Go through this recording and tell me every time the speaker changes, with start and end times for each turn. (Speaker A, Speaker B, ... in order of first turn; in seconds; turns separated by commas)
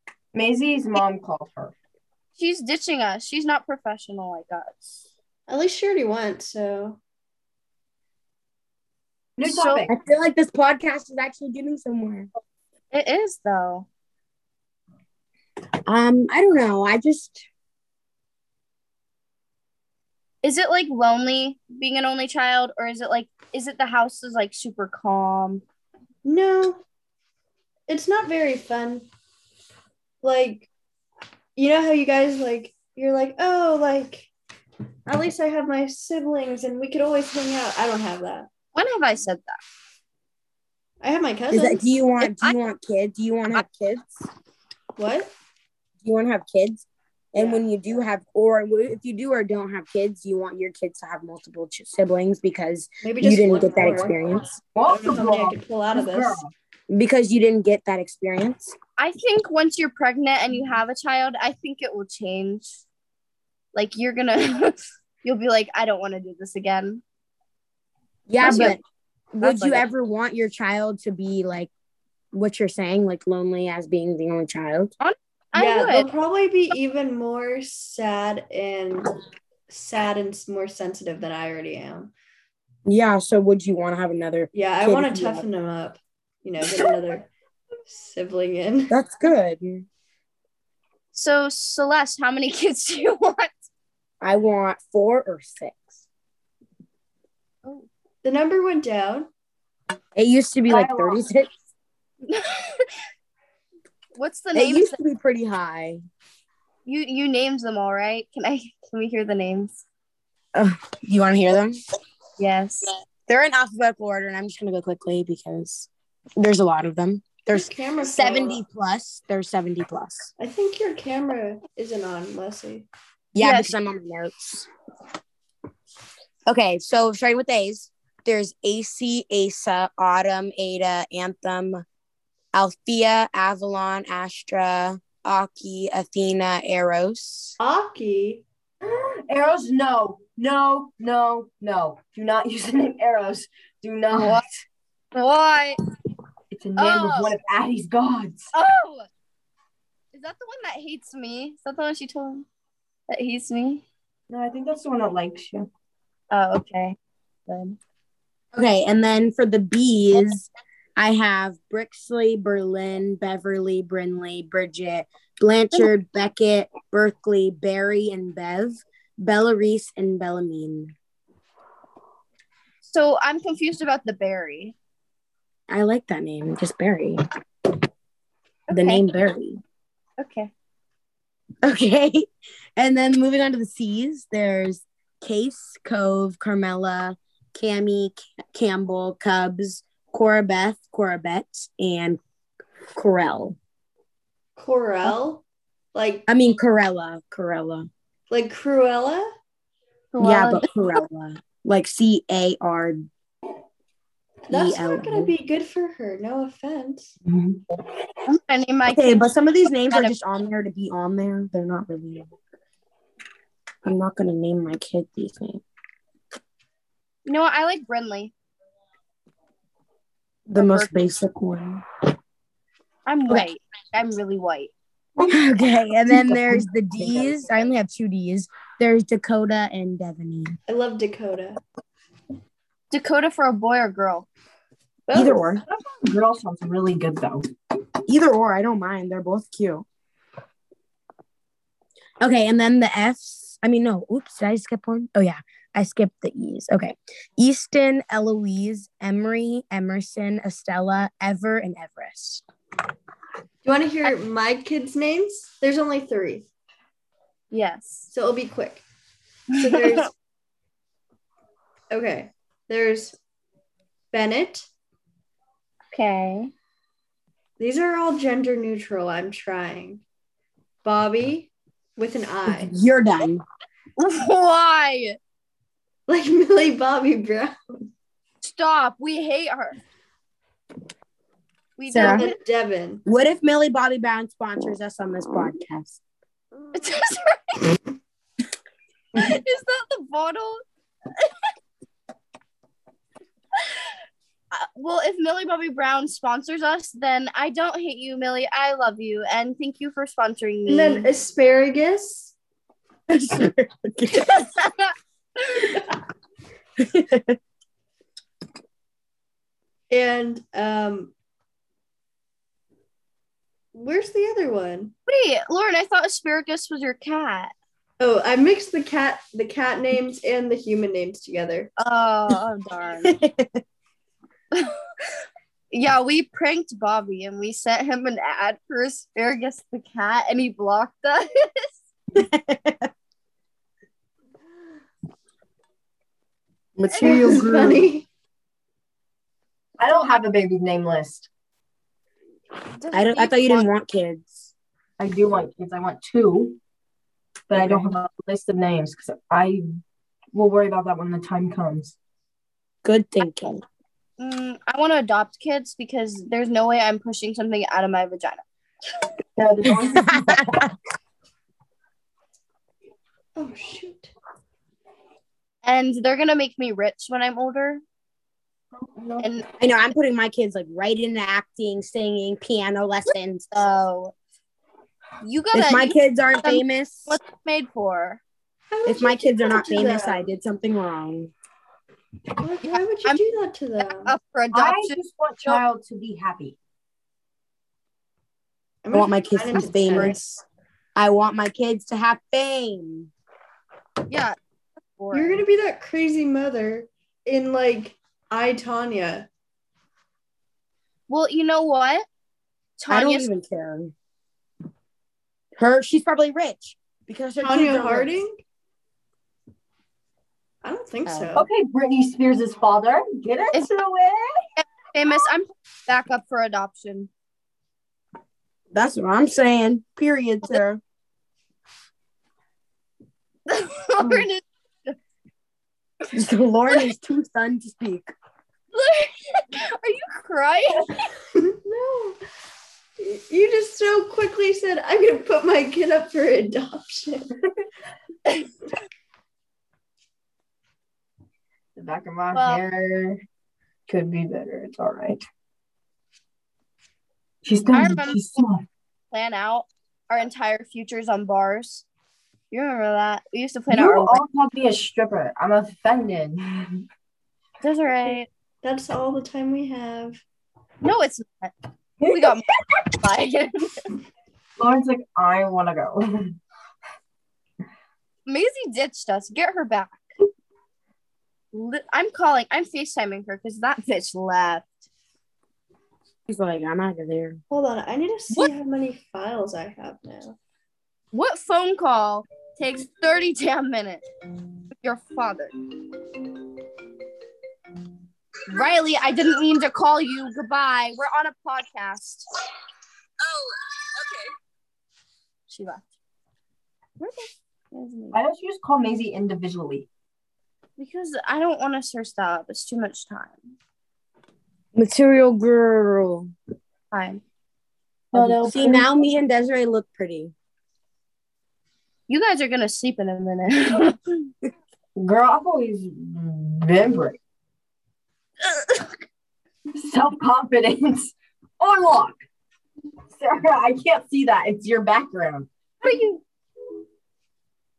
Speaker A: 0.3-1.7, Speaker B: 2.4-5.0, Speaker C: 5.5-7.0, Speaker A: 9.4-9.9, Speaker B: 9.4-9.9, Speaker D: 9.9-12.3, Speaker B: 12.9-13.9, Speaker D: 15.9-17.4, Speaker B: 20.4-25.6, Speaker C: 26.2-26.8, Speaker C: 27.9-29.1, Speaker C: 30.2-30.7, Speaker C: 31.6-34.3, Speaker C: 35.1-38.5, Speaker B: 38.8-39.6, Speaker C: 41.0-41.8, Speaker D: 41.5-44.2, Speaker B: 42.2-42.6, Speaker C: 45.0-45.3, Speaker D: 46.0-54.5, Speaker C: 47.4-47.6, Speaker C: 53.0-54.2, Speaker A: 54.8-56.5, Speaker C: 54.9-56.4, Speaker D: 56.9-58.8, Speaker B: 59.0-62.8, Speaker B: 63.8-67.0, Speaker D: 68.3-68.8, Speaker B: 68.4-68.8, Speaker D: 69.4-71.7, Speaker B: 69.4-69.9, Speaker D: 72.3-74.9, Speaker B: 75.0-76.1, Speaker C: 75.5-79.2, Speaker C: 79.7-82.1, Speaker D: 82.8-85.5, Speaker C: 84.5-87.3, Speaker C: 87.9-88.9, Speaker D: 88.9-89.9, Speaker B: 91.1-93.6, Speaker D: 94.2-96.0, Speaker C: 98.2-99.3, Speaker D: 100.2-101.5, Speaker A: 100.7-101.2, Speaker B: 102.3-102.9, Speaker B: 104.2-105.0, Speaker D: 104.5-106.0, Speaker B: 106.9-109.8, Speaker D: 110.5-111.8, Speaker B: 112.4-112.9, Speaker D: 113.3-120.3, Speaker C: 117.5-118.6, Speaker C: 120.4-122.9, Speaker D: 123.3-124.7, Speaker B: 123.4-123.7, Speaker D: 126.5-131.8, Speaker D: 132.5-137.6, Speaker C: 137.6-138.4, Speaker A: 138.8-144.5, Speaker B: 144.1-144.5, Speaker B: 145.1-145.8, Speaker A: 146.5-148.5, Speaker B: 146.8-147.4, Speaker B: 148.5-149.1, Speaker B: 150.1-152.4, Speaker B: 153.1-153.8, Speaker A: 154.3-155.7, Speaker B: 156.3-157.8, Speaker D: 158.5-170.9, Speaker B: 172.8-174.8, Speaker D: 175.7-177.2, Speaker B: 178.7-179.1, Speaker D: 178.7-179.6, Speaker B: 180.2-180.5, Speaker D: 181.6-192.2, Speaker D: 192.9-193.6, Speaker C: 194.6-195.4, Speaker C: 195.9-196.3, Speaker D: 196.3-197.9, Speaker C: 198.3-199.3, Speaker B: 200.1-201.1, Speaker D: 200.2-203.1, Speaker D: 204.5-205.3, Speaker C: 204.5-207.2, Speaker B: 208.3-209.3, Speaker D: 208.9-212.3, Speaker D: 213.8-215.6, Speaker B: 217.2-218.3, Speaker D: 220.5-221.8, Speaker B: 220.6-221.0, Speaker B: 223.1-224.7, Speaker D: 225.3-230.6, Speaker A: 226.1-227.3, Speaker C: 230.7-231.6, Speaker B: 232.9-234.3, Speaker B: 235.1-235.5, Speaker D: 235.1-235.6, Speaker A: 235.7-237.4, Speaker D: 238.1-239.8, Speaker D: 242.2-252.4, Speaker C: 253.6-256.5, Speaker B: 257.5-258.1, Speaker C: 258.1-258.8, Speaker C: 259.5-260.1, Speaker B: 259.5-260.0, Speaker C: 261.9-263.2, Speaker C: 264.1-264.7, Speaker B: 265.9-266.5, Speaker C: 267.6-270.0, Speaker C: 270.8-272.8, Speaker D: 272.5-273.4, Speaker B: 274.0-275.2, Speaker C: 276.1-277.9, Speaker B: 278.4-279.8, Speaker B: 281.8-282.4, Speaker D: 281.9-282.3, Speaker C: 281.9-283.0, Speaker D: 283.1-286.0, Speaker B: 286.7-287.8, Speaker B: 289.1-290.6, Speaker B: 294.5-301.1, Speaker C: 300.7-302.3, Speaker D: 303.1-304.5, Speaker B: 304.1-305.9, Speaker D: 306.8-307.4, Speaker C: 309.9-311.1, Speaker C: 313.7-314.9, Speaker B: 315.1-317.5, Speaker C: 318.0-321.7, Speaker B: 321.8-323.1, Speaker D: 323.1-323.6, Speaker B: 325.7-331.8, Speaker D: 332.1-332.9, Speaker D: 336.8-337.9, Speaker B: 336.9-337.4, Speaker C: 337.0-338.1, Speaker A: 339.8-341.3, Speaker B: 339.8-340.2, Speaker B: 342.8-343.7, Speaker D: 342.9-344.5, Speaker A: 345.0-346.6, Speaker A: 347.5-349.7, Speaker D: 347.5-347.9, Speaker A: 350.3-352.0, Speaker D: 352.8-353.6, Speaker B: 354.2-358.4, Speaker A: 359.4-360.6, Speaker D: 359.7-360.8, Speaker C: 363.4-364.1, Speaker B: 365.6-367.8, Speaker A: 368.8-369.3, Speaker B: 369.2-369.4, Speaker D: 369.6-373.5, Speaker B: 373.1-374.1, Speaker B: 375.2-378.2, Speaker D: 375.5-377.2, Speaker C: 378.7-380.3, Speaker D: 378.9-381.3, Speaker C: 382.4-384.1, Speaker B: 382.7-383.2, Speaker B: 383.8-385.6, Speaker A: 384.5-386.6, Speaker C: 388.8-390.4, Speaker D: 388.9-390.2, Speaker D: 391.0-393.1, Speaker B: 394.1-394.4, Speaker B: 395.0-395.4, Speaker C: 395.1-399.3, Speaker B: 401.1-402.1, Speaker B: 402.8-403.3, Speaker D: 402.9-403.9, Speaker D: 405.6-408.2, Speaker C: 407.4-408.4, Speaker C: 410.6-411.5, Speaker D: 411.1-411.4, Speaker A: 411.4-414.5, Speaker B: 413.5-413.8, Speaker B: 414.6-417.1, Speaker D: 418.7-420.8, Speaker B: 423.5-425.0, Speaker D: 426.1-428.1, Speaker B: 428.7-431.1, Speaker C: 431.4-432.2, Speaker C: 433.0-437.3, Speaker A: 441.8-443.2, Speaker B: 442.3-442.6, Speaker A: 443.9-445.2, Speaker A: 447.4-448.6, Speaker B: 447.7-448.5, Speaker B: 449.1-451.9, Speaker B: 452.5-454.2, Speaker A: 453.7-456.9, Speaker B: 457.6-458.3, Speaker C: 458.6-460.2, Speaker B: 460.8-463.9, Speaker A: 462.0-462.3, Speaker A: 464.6-466.4, Speaker B: 468.3-470.0, Speaker B: 471.5-474.8, Speaker D: 476.3-477.4, Speaker C: 477.5-480.4, Speaker B: 481.1-484.0, Speaker B: 484.8-485.5, Speaker B: 488.5-492.3, Speaker B: 495.5-495.9, Speaker B: 497.0-498.2, Speaker A: 498.1-499.9, Speaker B: 500.8-503.5, Speaker D: 504.8-506.3, Speaker B: 506.9-507.2, Speaker A: 508.1-508.9, Speaker D: 508.1-510.3, Speaker B: 512.1-514.3, Speaker A: 515.0-517.2, Speaker B: 518.4-518.9, Speaker A: 519.8-522.2, Speaker A: 523.1-525.5, Speaker B: 525.8-526.2